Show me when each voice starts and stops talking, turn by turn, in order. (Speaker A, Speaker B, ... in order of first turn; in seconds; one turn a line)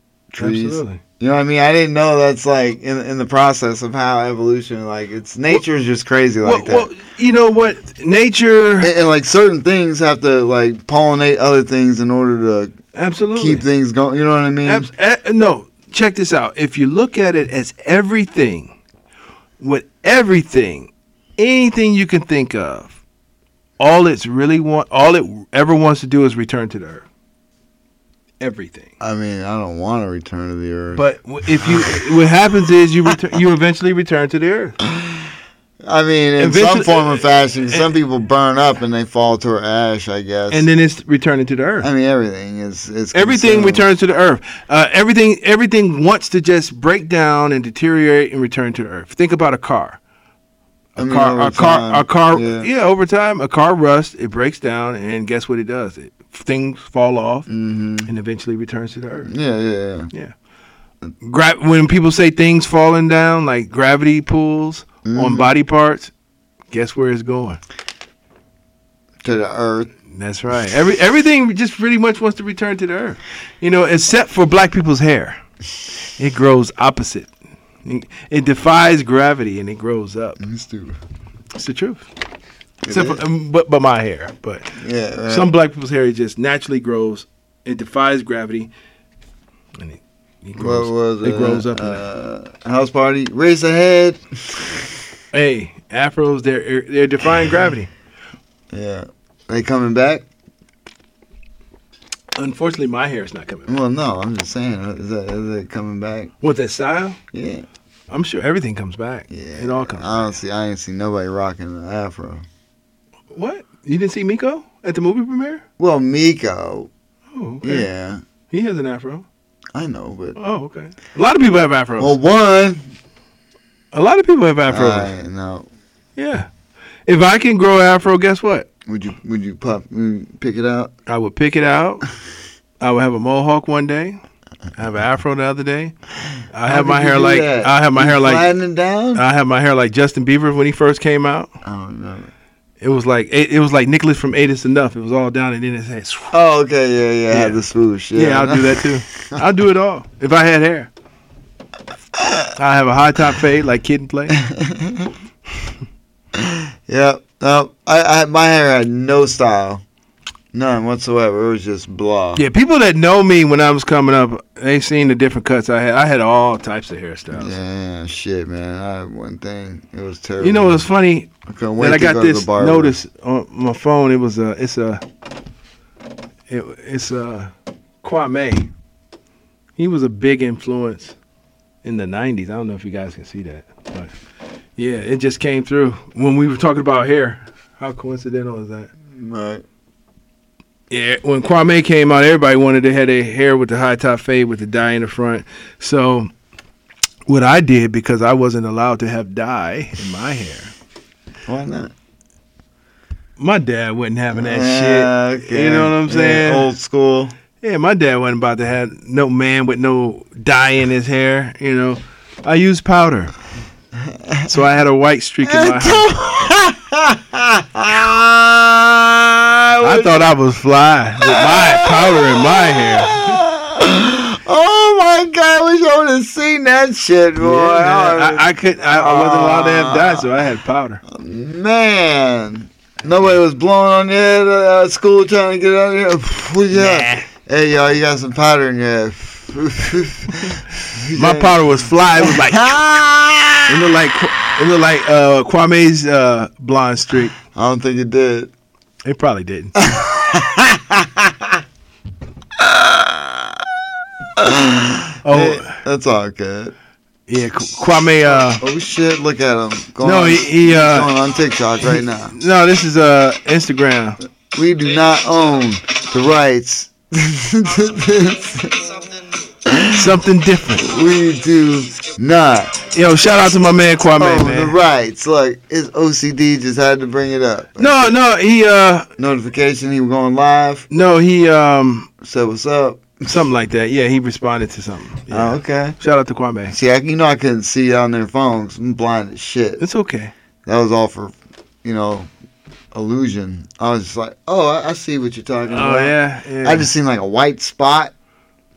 Speaker A: 0.3-6.9
Speaker B: 0.4-1.0
Speaker B: 6.4-8.9
Speaker A: 8.8-12.7
Speaker B: 12.9-13.6
Speaker A: 13.4-14.9
Speaker B: 14.7-18.8
Speaker B: 19.6-23.0
Speaker B: 23.8-27.1
Speaker B: 28.4-28.9
Speaker A: 29.0-31.0
Speaker B: 30.9-34.8
Speaker A: 31.6-32.1
Speaker A: 34.9-35.3
Speaker A: 35.9-40.7
Speaker B: 36.4-37.9
Speaker B: 40.5-41.9
Speaker A: 41.8-43.9
Speaker B: 43.1-50.0
Speaker B: 51.0-57.5
Speaker A: 51.0-52.7
Speaker A: 57.5-58.1
Speaker B: 58.1-59.3
Speaker A: 59.3-60.1
Speaker B: 61.2-66.1
Speaker A: 65.0-65.5
Speaker B: 66.7-67.6
Speaker A: 69.2-69.9
Speaker B: 70.1-75.4
Speaker B: 76.2-77.3
Speaker B: 77.8-80.4
Speaker A: 80.4-81.0
Speaker B: 81.5-82.1
Speaker A: 82.8-83.2
Speaker B: 82.9-88.7
Speaker A: 84.8-85.5
Speaker B: 89.8-92.0
Speaker A: 90.6-94.9
Speaker B: 95.3-97.9
Speaker A: 98.7-100.2
Speaker B: 102.4-103.8
Speaker A: 103.7-106.3
Speaker B: 106.4-107.2
Speaker A: 107.3-107.7
Speaker B: 108.1-110.3
Speaker A: 109.3-112.4
Speaker B: 113.3-115.6
Speaker A: 115.8-116.9
Speaker B: 117.3-117.9
Speaker A: 117.6-118.2
Speaker B: 118.5-119.3
Speaker A: 119.7-120.4
Speaker B: 120.4-122.2
Speaker A: 122.0-122.8
Speaker B: 123.9-125.1
Speaker A: 124.7-125.7
Speaker B: 126.2-126.5
Speaker B: 127.1-128.7
Speaker A: 128.9-130.9
Speaker B: 131.1-132.1
Speaker B: 132.8-134.2
Speaker B: 134.8-135.9
Speaker B: 136.5-138.5
Speaker A: 136.7-139.2
Speaker B: 139.2-141.5
Speaker A: 141.6-142.3
Speaker B: 142.8-146.3
Speaker A: 146.3-149.4
Speaker B: 147.3-147.6
Speaker B: 148.2-150.9
Speaker A: 152.2-152.5
Speaker B: 152.6-154.4
Speaker A: 154.4-155.1
Speaker A: 156.3-159.8
Speaker A: 160.5-162.4
Speaker B: 162.4-167.6
Speaker A: 167.3-170.9
Speaker B: 170.4-175.0
Speaker A: 171.5-173.0
Speaker B: 176.5-177.5
Speaker B: 178.0-178.7
Speaker B: 179.8-181.2
Speaker B: 181.8-184.1
Speaker B: 184.8-188.9
Speaker A: 189.1-189.6
Speaker B: 190.9-196.3
Speaker B: 197.3-200.7
Speaker A: 201.5-201.9
Speaker B: 203.4-206.7
Speaker A: 204.3-207.3
Speaker B: 207.6-213.3
Speaker A: 214.1-214.5
Speaker B: 214.5-216.1
Speaker A: 215.4-220.3
Speaker B: 219.8-223.4
Speaker A: 221.2-230.3
Speaker B: 227.4-231.0
Speaker A: 231.1-243.9
Speaker B: 236.7-237.3
Speaker B: 241.1-242.8
Speaker B: 243.7-247.4
Speaker A: 247.4-248.5
Speaker B: 249.1-249.8
Speaker A: 249.8-251.6
Speaker A: 252.6-253.6
Speaker A: 254.4-256.8
Speaker B: 255.2-255.8
Speaker B: 257.3-258.6
Speaker A: 258.2-262.3
Speaker B: 260.0-261.1
Speaker B: 261.9-264.2
Speaker A: 264.5-268.9
Speaker A: 269.6-270.2
Speaker B: 269.9-270.9
Speaker A: 270.8-272.8
Speaker B: 272.9-274.8
Speaker A: 274.2-278.2
Speaker B: 277.8-279.1
Speaker A: 279.2-280.9
Speaker B: 280.9-282.1
Speaker A: 282.2-283.2
Speaker B: 283.3-286.8
Speaker A: 285.3-286.0
Speaker A: 286.7-289.8
Speaker B: 289.8-290.3
Speaker A: 290.7-292.3
Speaker A: 292.9-298.1
Speaker B: 295.7-296.9